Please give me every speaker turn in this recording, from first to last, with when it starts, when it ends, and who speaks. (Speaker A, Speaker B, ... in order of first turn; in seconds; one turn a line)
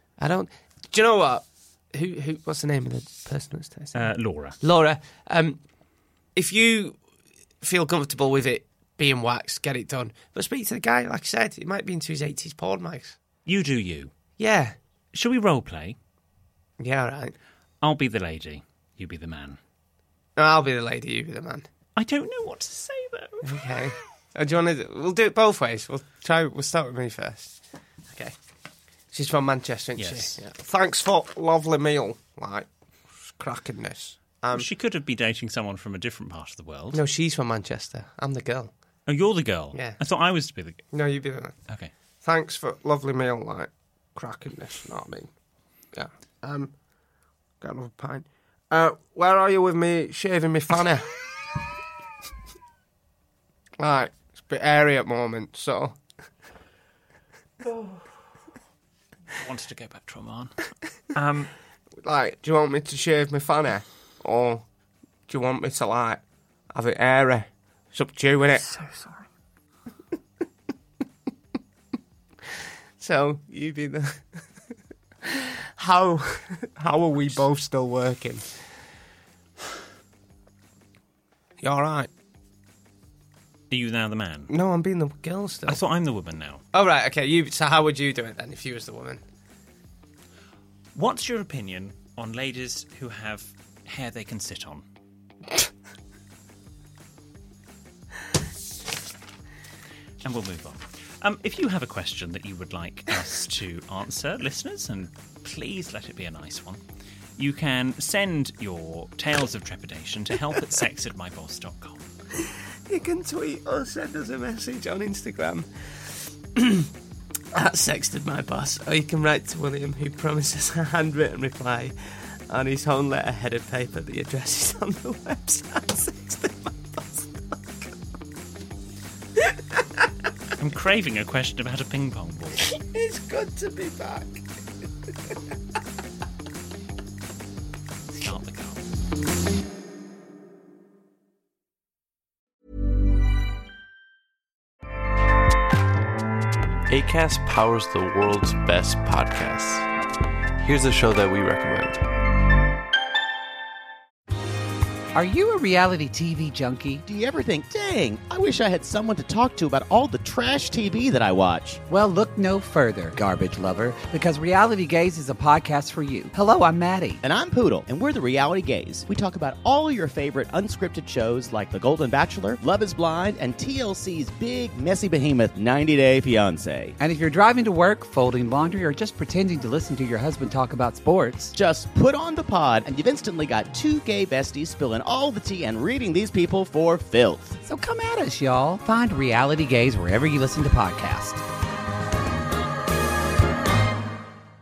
Speaker A: 0.2-5.6
Speaker B: 4.0-4.6
Speaker A: 6.3-7.0
Speaker A: 7.6-13.2
Speaker B: 13.4-14.1
Speaker A: 14.4-14.8
Speaker B: 15.1-16.0
Speaker A: 16.8-17.4
Speaker B: 17.8-19.6
Speaker A: 20.4-21.6
Speaker B: 21.9-23.6
Speaker A: 23.4-27.6
Speaker A: 28.1-28.3
Speaker A: 29.1-32.7
Speaker B: 30.0-30.4
Speaker A: 33.3-34.6
Speaker B: 34.5-37.0
Speaker A: 36.9-38.7
Speaker B: 39.1-40.8
Speaker A: 40.9-41.5
Speaker A: 42.2-45.3
Speaker A: 45.9-46.7
Speaker A: 47.6-51.0
Speaker A: 53.8-56.0
Speaker B: 59.3-60.5
Speaker B: 61.1-61.5
Speaker A: 62.0-64.6
Speaker A: 65.3-66.2
Speaker A: 66.7-68.7
Speaker A: 73.0-74.2
Speaker A: 75.2-78.5
Speaker A: 81.6-82.1
Speaker B: 83.7-84.5
Speaker A: 84.5-85.8
Speaker B: 85.7-86.6
Speaker A: 86.7-89.2
Speaker B: 90.9-94.8
Speaker B: 100.2-106.8
Speaker B: 107.4-112.1
Speaker A: 112.4-116.9
Speaker A: 117.5-127.9
Speaker B: 130.6-132.6
Speaker A: 132.7-134.4
Speaker B: 138.1-138.8
Speaker C: 146.9-149.9
Speaker C: 150.6-152.0
Speaker D: 155.1-157.0
Speaker E: 157.0-161.8
Speaker D: 161.9-167.2
Speaker E: 167.2-176.9
Speaker D: 177.0-181.5
Speaker E: 181.5-187.6
Speaker D: 187.6-191.4